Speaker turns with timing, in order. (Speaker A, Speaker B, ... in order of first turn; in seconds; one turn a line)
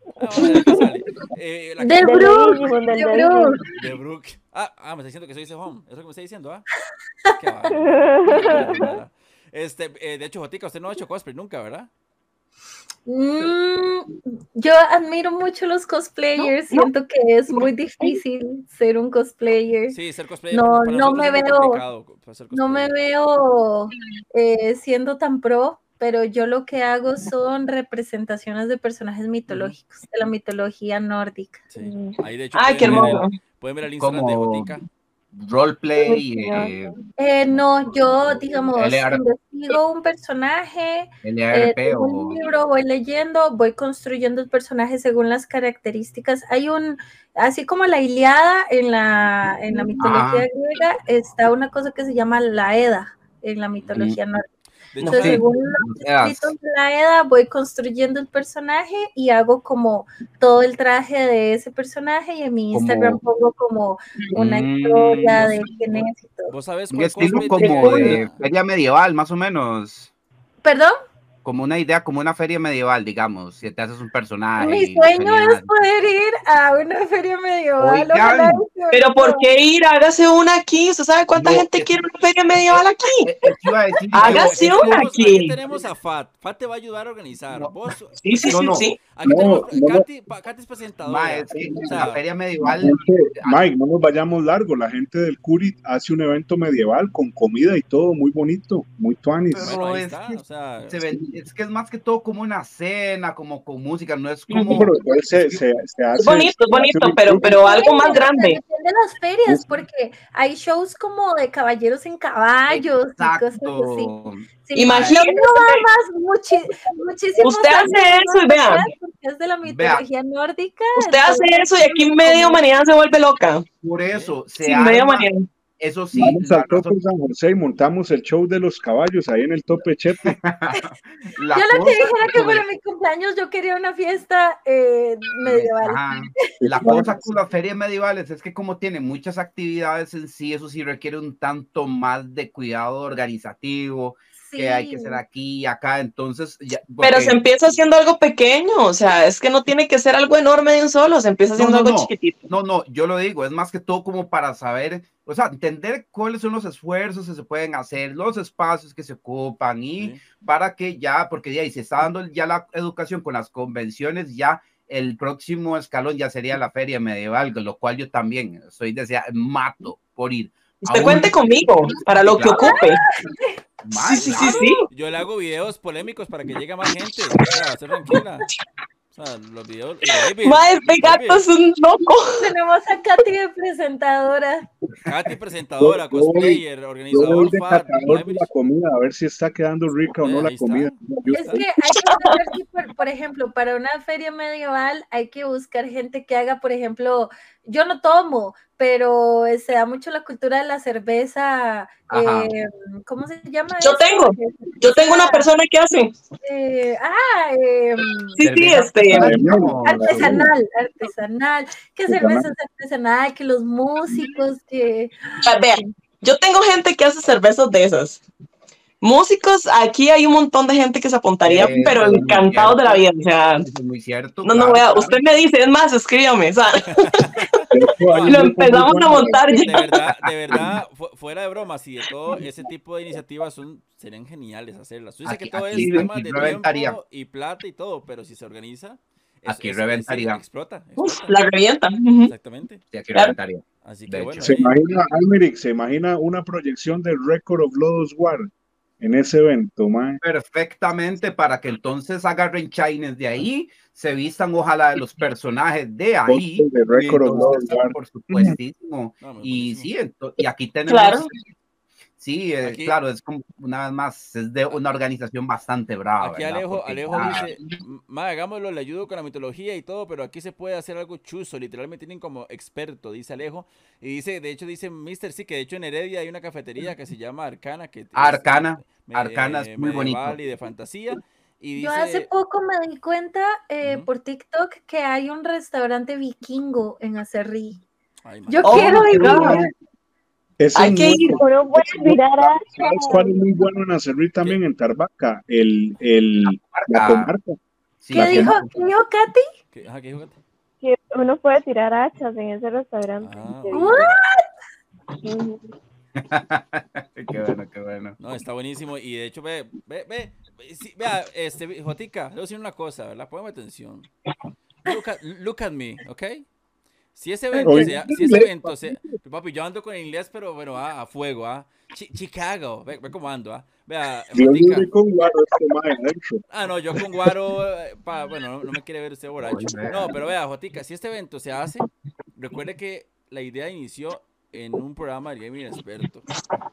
Speaker A: 0.2-2.4
Speaker B: 1.8-3.7
Speaker C: 2.0-3.6
Speaker A: 3.7-6.7
Speaker A: 7.4-11.9
Speaker C: 7.9-8.9
Speaker B: 13.1-20.0
Speaker A: 19.9-22.9
Speaker B: 20.5-21.8
Speaker B: 22.5-31.6
Speaker A: 29.5-29.8
Speaker A: 31.7-34.9
Speaker C: 31.8-32.2
Speaker D: 32.5-33.4
Speaker E: 32.8-33.2
Speaker E: 34.0-34.8
Speaker E: 35.3-37.0
Speaker C: 36.0-37.0
Speaker B: 37.2-54.5
Speaker E: 37.5-38.1
Speaker E: 38.8-39.2
Speaker E: 41.2-42.4
Speaker E: 50.0-50.5
Speaker A: 53.8-54.0
Speaker A: 54.9-55.4
Speaker B: 55.0-66.5
Speaker E: 55.0-56.5
Speaker E: 62.7-63.2
Speaker E: 64.3-66.0
Speaker A: 66.5-68.4
Speaker E: 66.9-70.1
Speaker B: 67.2-68.2
Speaker D: 67.6-67.9
Speaker B: 70.6-71.0
Speaker E: 71.4-75.7
Speaker B: 74.6-79.5
Speaker E: 77.8-78.7
Speaker D: 78.9-83.5
Speaker E: 81.3-81.9
Speaker E: 82.7-85.1
Speaker D: 84.1-85.5
Speaker A: 84.2-92.2
Speaker D: 88.2-89.0
Speaker E: 88.4-88.8
Speaker F: 89.2-90.1
Speaker E: 91.0-93.7
Speaker F: 92.6-99.8
Speaker E: 99.5-100.4
Speaker A: 99.6-101.0
Speaker E: 100.9-105.6
Speaker D: 104.5-104.9
Speaker F: 104.7-107.6
Speaker D: 106.2-108.6
Speaker B: 107.5-122.6
Speaker F: 109.5-109.8
Speaker E: 112.7-115.2
Speaker D: 114.8-115.9
Speaker D: 117.4-118.9
Speaker E: 119.6-120.0
Speaker D: 121.0-123.7
Speaker E: 123.8-125.3
Speaker A: 124.1-124.4
Speaker D: 124.6-125.5
Speaker E: 125.8-126.9
Speaker F: 126.1-130.3
Speaker E: 130.2-132.7
Speaker B: 131.5-137.1
Speaker E: 135.4-147.6
Speaker F: 136.7-137.3
Speaker B: 144.4-145.2
Speaker D: 147.0-152.4
Speaker E: 151.6-172.8
Speaker D: 170.8-173.0
Speaker B: 172.5-173.3
Speaker E: 173.8-174.6
Speaker D: 173.9-174.9
Speaker A: 174.1-178.5
Speaker A: 179.1-181.4
Speaker D: 180.4-182.5
Speaker B: 182.3-184.7
Speaker A: 185.0-188.5
Speaker F: 185.8-191.6
Speaker A: 190.2-191.6
Speaker B: 191.3-205.5
Speaker D: 191.9-192.4
Speaker E: 202.1-202.5
Speaker D: 203.8-206.2
Speaker B: 206.4-208.4
Speaker D: 208.4-209.4
Speaker E: 208.4-210.5
Speaker F: 209.1-210.5
Speaker B: 209.8-215.2
Speaker F: 212.1-212.5
Speaker D: 215.4-218.2
Speaker D: 219.0-223.7
Speaker E: 221.4-225.1
Speaker F: 222.0-222.3
Speaker D: 224.4-227.3
Speaker A: 227.0-228.5
Speaker F: 227.7-229.5
Speaker D: 228.2-229.9
Speaker A: 229.5-241.4
Speaker E: 230.3-230.7
Speaker E: 235.2-237.0
Speaker D: 235.7-236.5
Speaker E: 239.5-240.4
Speaker D: 241.0-242.3
Speaker A: 242.2-242.8
Speaker E: 242.9-244.8
Speaker A: 243.8-244.8
Speaker F: 244.4-248.5
Speaker F: 249.0-250.2
Speaker E: 250.2-261.3
Speaker F: 256.3-258.6
Speaker A: 259.2-259.9
Speaker D: 260.9-261.3
Speaker E: 262.2-267.6
Speaker A: 262.6-263.0
Speaker A: 266.2-282.3
Speaker E: 278.1-280.4
Speaker B: 281.8-287.8
Speaker A: 283.8-284.1
Speaker A: 288.2-289.1
Speaker B: 288.5-289.6
Speaker D: 288.6-289.6
Speaker F: 288.6-289.7
Speaker F: 290.6-297.6
Speaker D: 290.8-291.4
Speaker C: 291.2-293.4
Speaker B: 292.8-293.3
Speaker E: 296.6-297.3
Speaker E: 298.0-298.7
Speaker F: 298.1-298.7
Speaker B: 298.1-299.5
Speaker A: 299.7-300.4
Speaker C: 300.8-304.1
Speaker A: 303.2-304.1
Speaker B: 303.7-304.5
Speaker C: 305.2-305.7
Speaker E: 306.2-308.2
Speaker A: 308.2-314.1
Speaker A: 314.8-316.5
Speaker A: 317.1-324.9
Speaker F: 317.6-318.8
Speaker F: 324.3-326.4
Speaker A: 326.5-336.2
Speaker E: 329.5-330.1